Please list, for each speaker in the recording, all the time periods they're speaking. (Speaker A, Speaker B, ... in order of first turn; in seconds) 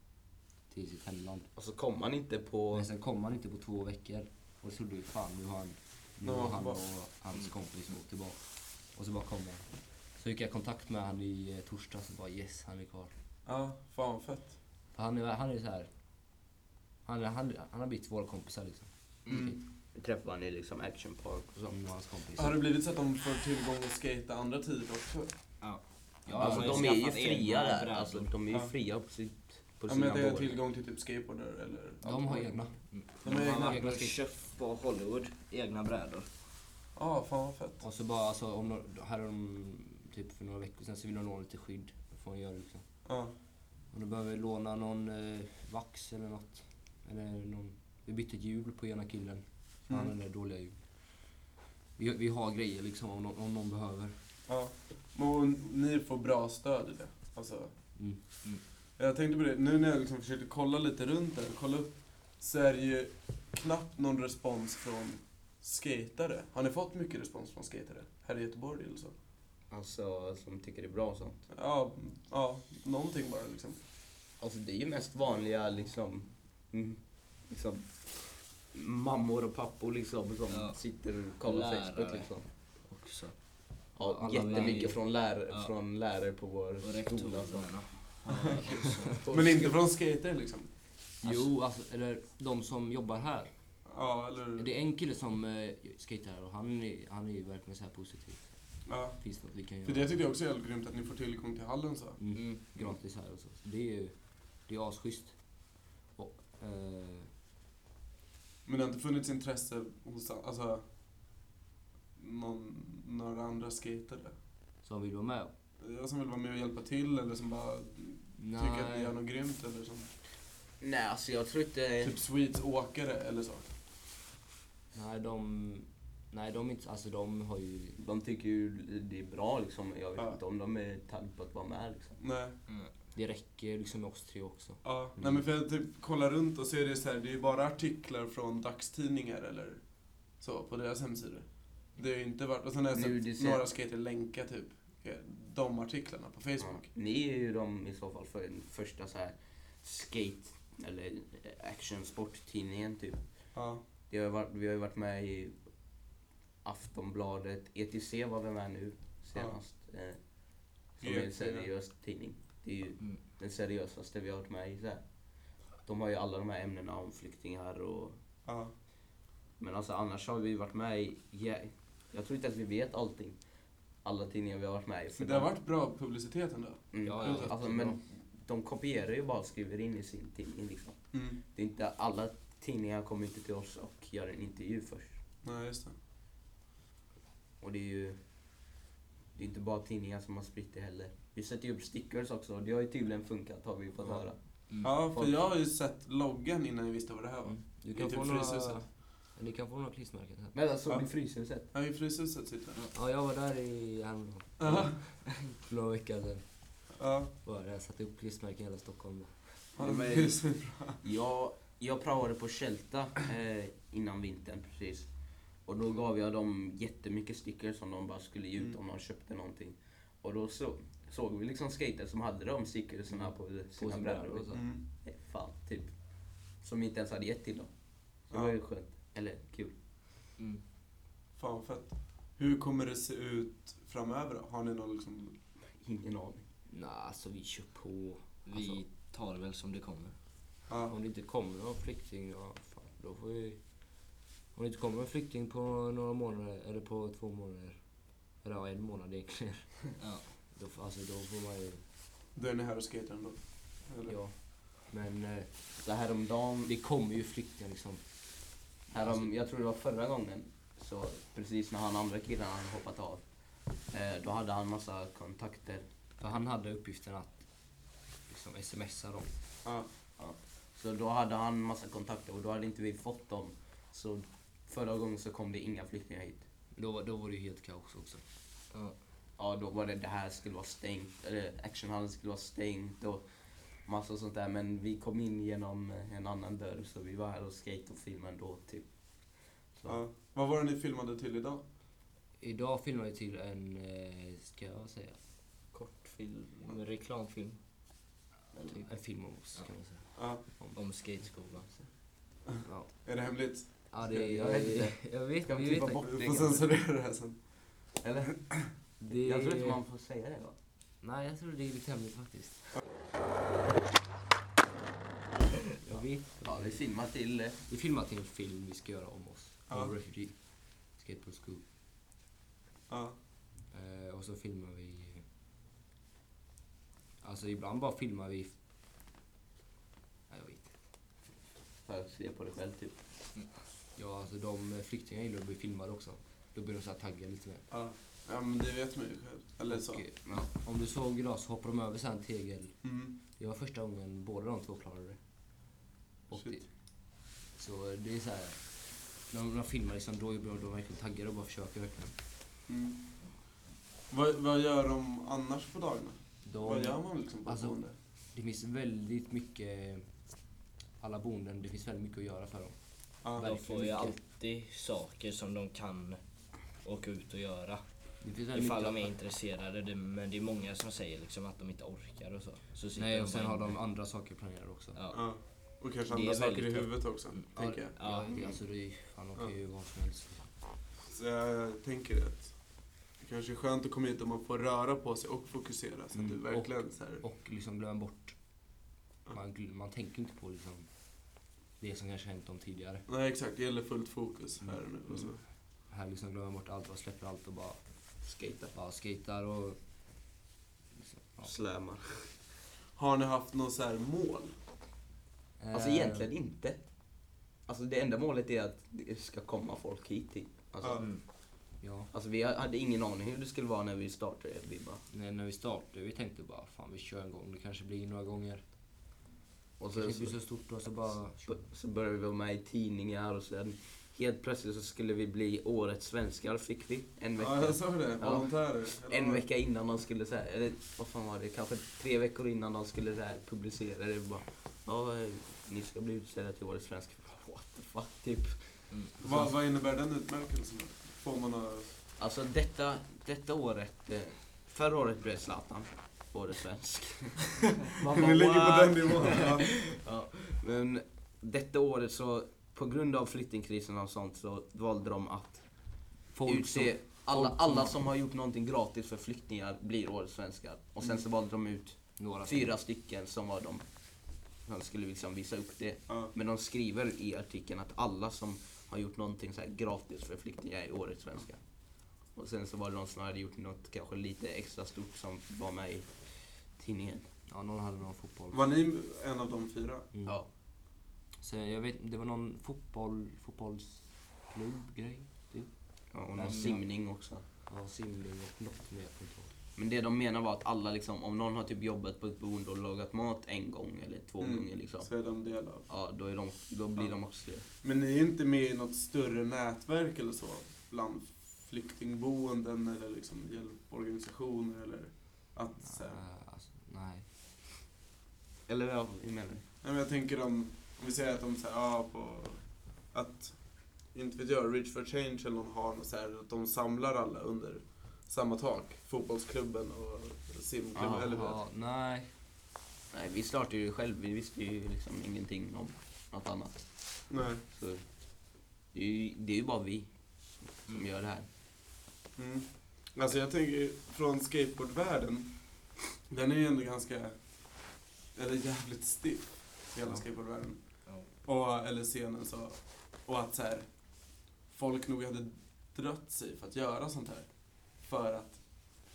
Speaker A: 0.7-1.5, 2.7-13.1, 14.9-15.9, 17.0-19.6, 21.7-22.6, 26.2-26.9, 32.0-34.2, 37.8-42.8, 43.9-50.7, 52.0-54.1, 84.0-85.0, 91.2-93.5, 94.5-98.5, 99.2-100.2, 102.2-107.3, 114.8-115.5, 118.4-119.1, 124.9-128.0, 133.1-135.4, 177.0-178.0, 197.4-200.5, 202.9-206.7, 207.4-209.6, 223.7-224.6, 236.7-238.8, 240.9-243.8, 244.5-249.8, 250.5-251.8, 254.0-255.7, 256.6-259.3, 266.2-267.5, 268.3-269.3, 276.7-278.2, 292.4-295.2, 298.6-301.3, 302.6-303.1, 303.7-306.2, 309.0-309.8, 311.0-312.7, 315.8-316.8, 317.7-321.6, 323.7-325.2, 327.2-328.5, 330.3-330.7, 333.9-337.6, 339.7-345.2, 346.3-346.7, 347.2-352.1, 356.4-357.8, 358.3-360.1, 361.0-364.2, 368.2-369.1, 372.9-375.0, 377.5-380.4, 386.1-388.4, 389.3-393.0, 395.9-397.8, 398.7-399.8, 401.0-401.5, 405.6-406.3, 411.8-412.1, 415.1-418.6, 419.9-421.6, 456.3-458.0, 462.2-462.7, 477.5-478.6, 480.1-480.4, 481.4-486.9, 487.7-489.5, 505.8-507.2, 521.3-522.3
Speaker B: 1.6-2.9, 19.9-21.8, 26.4-30.6, 69.7-71.4, 74.4-82.5, 84.0-87.8, 89.2-89.7, 120.8-122.1, 128.0-132.2, 142.9-143.6, 146.6-153.2, 154.1-155.5, 156.6-160.2, 160.9-165.0, 165.8-168.2, 169.6-173.4, 174.0-175.5, 176.9-185.1, 187.6-188.2, 189.3-195.4, 200.5-201.7, 209.8-215.1, 215.6-225.9, 226.6-227.7, 228.2-229.7, 235.8-236.4, 255.8-256.7, 258.9-263.2, 263.9-265.8, 270.2-276.4, 279.4-290.0, 295.7-296.6, 304.2-306.8, 308.0-310.6, 316.4-317.6, 331.9-332.9, 398.2-398.7, 401.4-402.3, 405.7-411.3, 412.1-415.0, 419.8-420.4, 421.4-438.9, 442.2-455.7, 456.4-463.8, 464.6-477.2, 486.1-487.4, 489.8-495.1, 495.9-497.6, 508.7-509.6, 520.9-521.4, 523.1-528.0, 528.9-530.1, 530.7-531.5
Speaker C: 6.2-6.8, 13.4-14.5, 19.3-19.6, 22.4-25.3, 29.9-32.6, 33.2-33.8, 37.0-37.8, 43.0-43.3, 54.5-57.7, 59.0-69.1, 71.5-73.8, 89.3-90.7, 93.8-94.7, 98.8-99.2, 99.8-102.2, 108.6-110.8, 112.2-114.3, 115.8-120.1, 122.0-123.7, 132.2-132.6, 134.8-139.8, 140.3-146.8, 153.5-153.8, 161.0-161.7, 168.4-168.7, 175.2-177.5, 181.1-181.4, 185.4-185.9, 194.8-198.8, 201.7-202.8, 204.6-204.9, 207.0-207.3, 209.8-211.0, 224.5-224.8, 231.3-235.3, 240.7-240.9, 252.3-254.2, 289.9-291.6, 300.1-300.4, 303.0-304.3, 306.0-307.5, 322.9-323.1, 337.7-340.0, 342.8-343.1, 352.7-353.0, 354.1-357.9, 363.2-363.5, 375.1-377.9, 381.1-382.6, 383.1-387.2, 393.1-395.4, 402.9-404.5, 410.8-411.1, 427.4-429.4, 439.2-442.0, 448.0-449.7, 478.5-480.1, 494.4-495.9, 497.8-506.2, 509.8-521.6, 527.3-527.6, 532.4-548.6
Speaker D: 25.6-28.3, 32.9-36.3, 80.5-80.8, 81.4-83.3, 84.3-85.7, 86.8-89.2, 102.3-102.6, 238.4-240.1, 250.0-250.3, 296.6-297.6, 298.6-298.8, 300.7-301.7, 363.4-366.2, 366.8-367.8, 368.5-373.8, 374.9-375.2, 376.1-378.4, 438.9-439.1, 486.4-486.7